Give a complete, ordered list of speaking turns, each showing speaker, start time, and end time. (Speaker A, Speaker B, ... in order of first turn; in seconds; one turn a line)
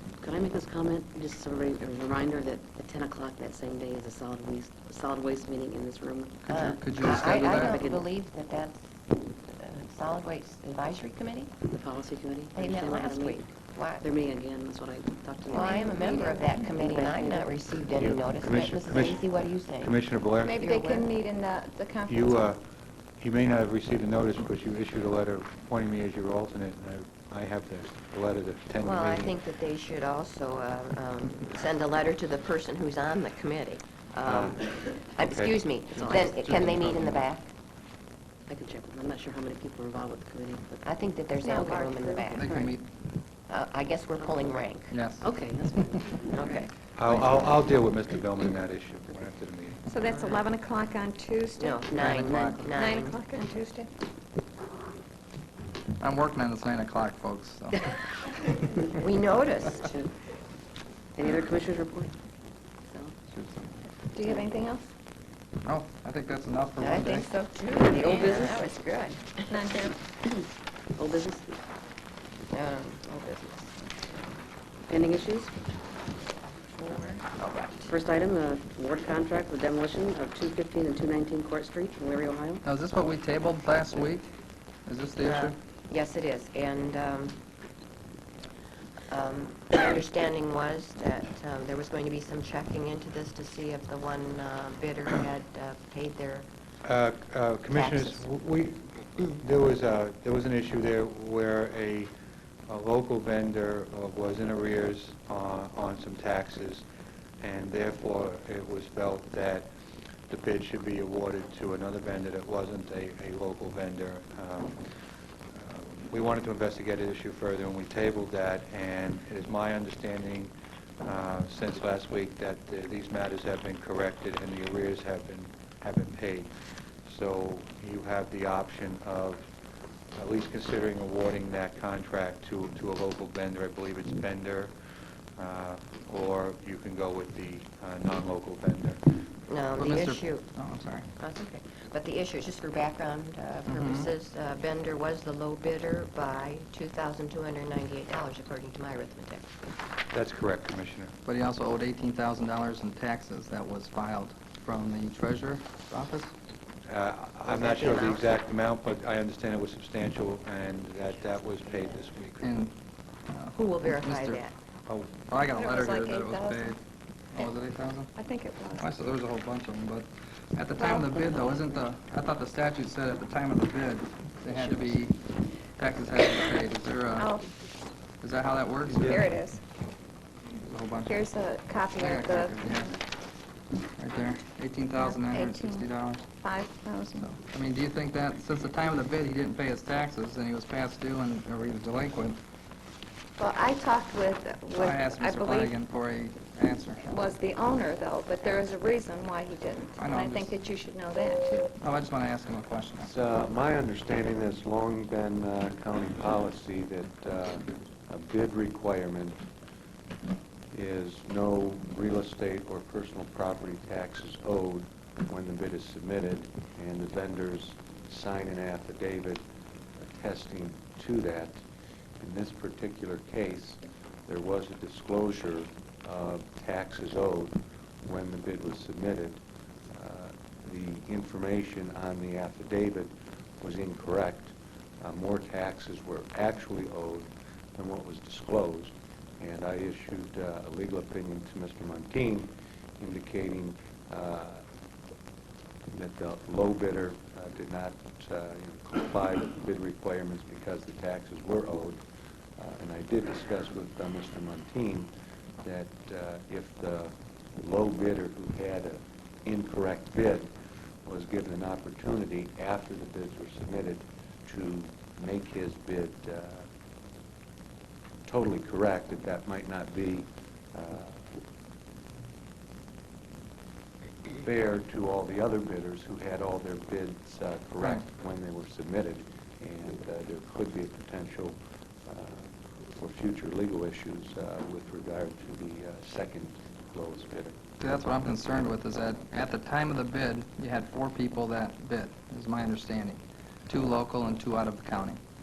Speaker A: 0.2-6.4
Speaker B: 6.4-7.8
Speaker C: 6.5-11.6
Speaker A: 7.0-8.1
Speaker A: 11.7-13.5
Speaker C: 12.6-14.1
Speaker A: 14.0-17.6
Speaker C: 15.5-20.0
Speaker D: 15.5-16.5
Speaker E: 18.0-19.2
Speaker E: 19.8-20.6
Speaker D: 20.4-22.6
Speaker C: 20.6-21.1
Speaker E: 22.1-22.6
Speaker E: 23.2-29.4
Speaker C: 28.8-37.5
Speaker E: 34.2-34.6
Speaker E: 35.2-35.6
Speaker B: 35.9-37.2
Speaker A: 38.5-40.8
Speaker C: 40.8-42.7
Speaker D: 41.4-42.4
Speaker B: 42.4-42.9
Speaker C: 43.5-44.9
Speaker B: 44.9-45.3
Speaker A: 45.2-46.6
Speaker C: 46.3-46.7
Speaker E: 47.0-49.9
Speaker D: 49.9-51.8
Speaker C: 51.6-53.2
Speaker A: 52.0-52.8
Speaker B: 52.0-52.6
Speaker D: 52.8-53.9
Speaker B: 56.0-57.9
Speaker C: 59.0-59.9
Speaker A: 59.8-60.1
Speaker A: 61.2-62.1
Speaker A: 62.9-63.1
Speaker B: 63.3-63.8
Speaker D: 64.1-64.9
Speaker B: 65.6-67.3
Speaker C: 66.8-69.5
Speaker A: 67.8-68.7
Speaker D: 69.5-70.0
Speaker A: 70.3-71.6
Speaker C: 72.5-74.2
Speaker A: 74.9-75.5
Speaker C: 76.5-77.9
Speaker A: 77.9-82.6
Speaker B: 82.6-84.3
Speaker B: 84.9-85.5
Speaker C: 85.2-87.4
Speaker C: 89.1-96.5
Speaker E: 96.8-102.1
Speaker C: 97.7-98.3
Speaker E: 102.7-106.8
Speaker E: 107.4-109.7
Speaker E: 110.3-114.8
Speaker E: 115.5-126.5
Speaker E: 127.1-129.5
Speaker E: 130.2-134.7
Speaker E: 135.4-139.1
Speaker C: 139.5-140.5
Speaker B: 139.8-141.1
Speaker C: 141.2-149.7
Speaker B: 143.7-144.1
Speaker E: 150.1-151.1
Speaker B: 151.2-156.3
Speaker E: 156.9-162.5
Speaker C: 157.5-158.4
Speaker B: 162.4-162.7
Speaker B: 163.3-164.4
Speaker C: 163.5-164.5
Speaker E: 164.9-165.2
Speaker B: 165.3-166.8
Speaker D: 165.6-166.8
Speaker B: 167.3-168.1
Speaker D: 168.1-168.9
Speaker B: 168.8-175.2
Speaker D: 170.8-171.2
Speaker B: 175.8-177.3
Speaker D: 177.2-177.5
Speaker B: 178.2-179.3
Speaker E: 178.9-179.2
Speaker D: 179.0-179.6
Speaker B: 180.6-181.3
Speaker D: 181.0-183.0
Speaker B: 182.0-182.9
Speaker B: 184.0-186.3
Speaker D: 185.0-187.4
Speaker B: 187.2-192.4
Speaker D: 193.4-195.8
Speaker B: 194.8-197.2
Speaker D: 197.0-201.8
Speaker B: 200.0-200.6
Speaker B: 201.8-203.2
Speaker F: 203.0-209.4
Speaker F: 210.7-219.4
Speaker F: 220.0-221.6
Speaker F: 222.2-244.6
Speaker F: 245.9-252.0
Speaker F: 252.6-255.1
Speaker F: 255.6-260.5
Speaker F: 261.1-266.7
Speaker F: 268.2-271.3
Speaker F: 274.4-287.6
Speaker B: 287.8-295.2